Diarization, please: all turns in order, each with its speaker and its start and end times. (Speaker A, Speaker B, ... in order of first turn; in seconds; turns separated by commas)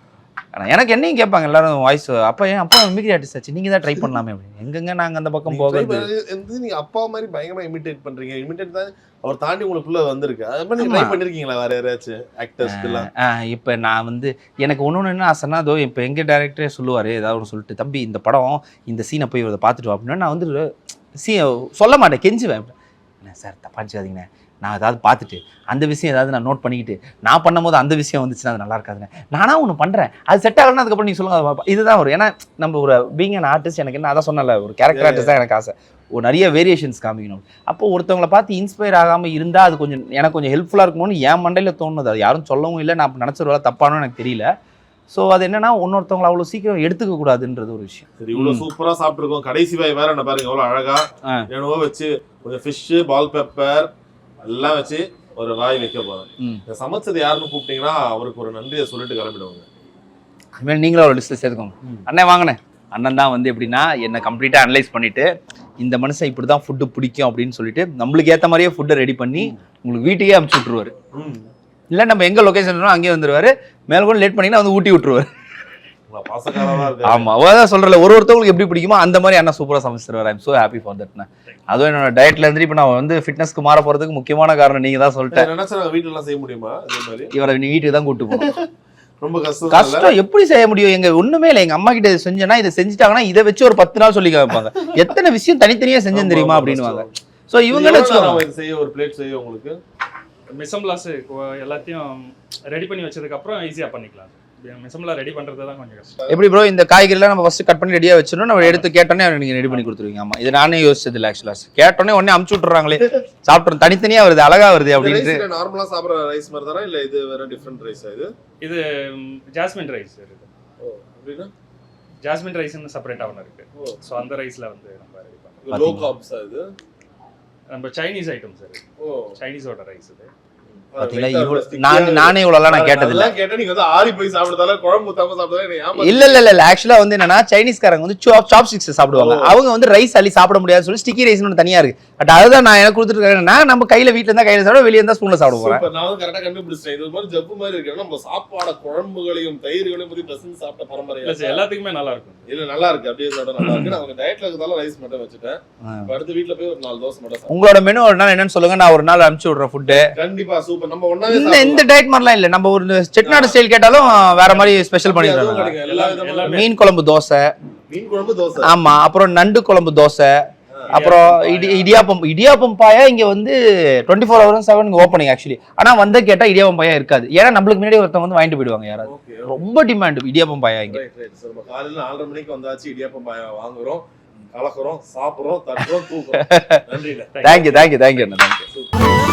Speaker A: 0.5-6.1, Speaker B: 5.5-13.1, Speaker A: 10.8-11.2, Speaker A: 12.6-44.5, Speaker B: 34.9-35.3, Speaker A: 45.1-48.7, Speaker B: 48.2-53.9, Speaker B: 54.4-59.6, Speaker A: 60.6-70.9, Speaker B: 71.1-71.5, Speaker A: 71.9-75.3, Speaker B: 76.1-77.3, Speaker A: 77.0-85.5, Speaker B: 85.3-87.3, Speaker A: 87.3-88.5, Speaker B: 88.3-88.7, Speaker B: 89.2-90.1, Speaker A: 89.7-98.4, Speaker B: 96.1-97.2, Speaker B: 97.7-99.8, Speaker C: 100.5-106.2, Speaker A: 106.3-115.4, Speaker B: 115.0-118.3, Speaker C: 118.6-120.5, Speaker B: 120.8-121.5, Speaker C: 122.2-125.6, Speaker B: 125.6-126.7, Speaker A: 125.7-126.1, Speaker C: 127.7-128.8, Speaker B: 129.0-129.3, Speaker C: 129.3-130.3, Speaker B: 130.9-136.4, Speaker A: 131.0-133.3, Speaker A: 136.0-145.8, Speaker B: 139.1-139.6, Speaker B: 145.5-151.6, Speaker C: 151.2-152.4, Speaker B: 152.5-157.5, Speaker A: 153.6-153.9, Speaker A: 155.8-156.1, Speaker A: 157.5-160.1, Speaker B: 159.9-161.9, Speaker A: 161.3-165.8, Speaker B: 163.2-163.6, Speaker B: 164.5-166.7, Speaker C: 165.8-166.7, Speaker A: 166.4-167.5, Speaker B: 167.9-168.7, Speaker A: 168.6-170.3, Speaker A: 170.9-181.0, Speaker C: 170.9-172.0, Speaker B: 179.0-179.6, Speaker B: 180.9-187.3, Speaker A: 186.4-186.8, Speaker C: 187.3-187.9, Speaker A: 187.4-188.6